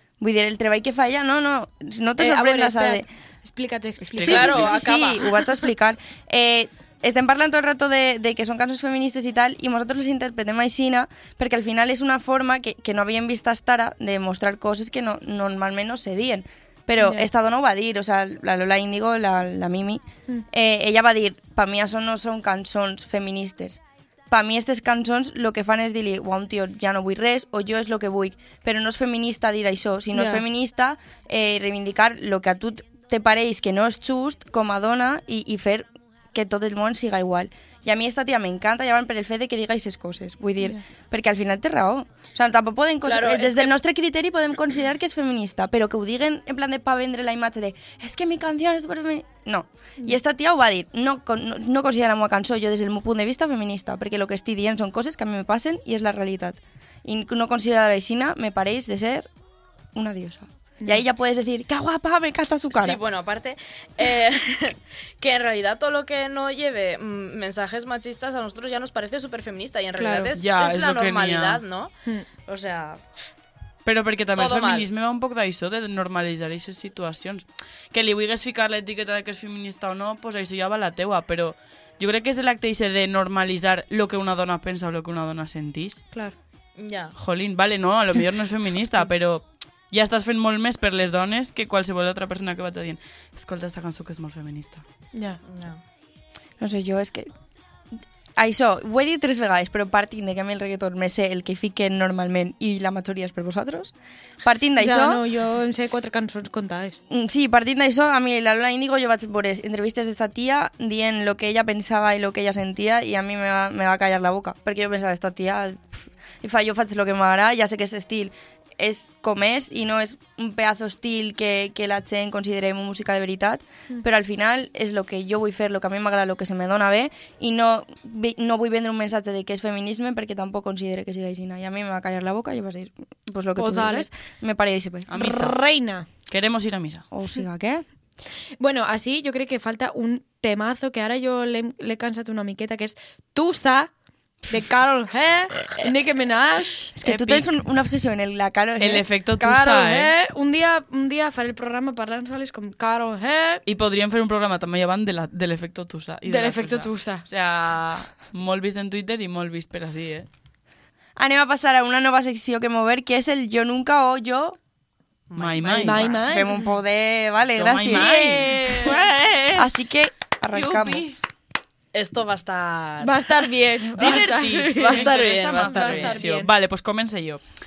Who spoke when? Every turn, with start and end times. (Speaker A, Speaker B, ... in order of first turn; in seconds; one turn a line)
Speaker A: 0.2-3.1
Speaker B: 2.2-4.9
Speaker C: 4.0-4.7
Speaker A: 4.2-59.3
Speaker D: 4.2-5.2
Speaker B: 17.0-17.3
Speaker B: 30.1-30.4
Speaker D: 43.0-43.7
Speaker A: 59.9-63.0
Speaker D: 62.7-73.1
Speaker B: 70.0-70.3
Speaker C: 70.4-71.6
Speaker C: 73.8-86.0
Speaker D: 74.3-74.9
Speaker D: 86.8-87.1
Speaker C: 87.2-94.8
Speaker B: 95.1-95.4
Speaker D: 95.5-95.8
Speaker A: 96.6-97.3
Speaker A: 98.4-105.2
Speaker B: 104.8-107.0
Speaker A: 107.1-135.1
Speaker B: 133.6-134.1
Speaker C: 135.1-135.6
Speaker B: 135.1-136.1
Speaker C: 136.3-137.1
Speaker A: 137.1-137.8
Speaker B: 138.6-143.9
Speaker B: 144.5-146.9
Speaker A: 147.0-149.1
Speaker C: 147.1-147.5
Speaker C: 148.8-150.1
Speaker B: 149.4-153.6
Speaker C: 153.7-160.3
Speaker B: 156.3-157.2
Speaker A: 161.2-164.6
Speaker D: 165.3-166.2
Speaker C: 165.3-166.1
Speaker B: 165.7-166.7
Speaker A: 166.3-169.0
Speaker C: 167.5-169.7
Speaker A: 169.6-171.2
Speaker C: 170.5-171.2
Speaker D: 171.9-173.2
Speaker B: 173.0-176.5
Speaker C: 174.0-177.4
Speaker D: 174.7-176.2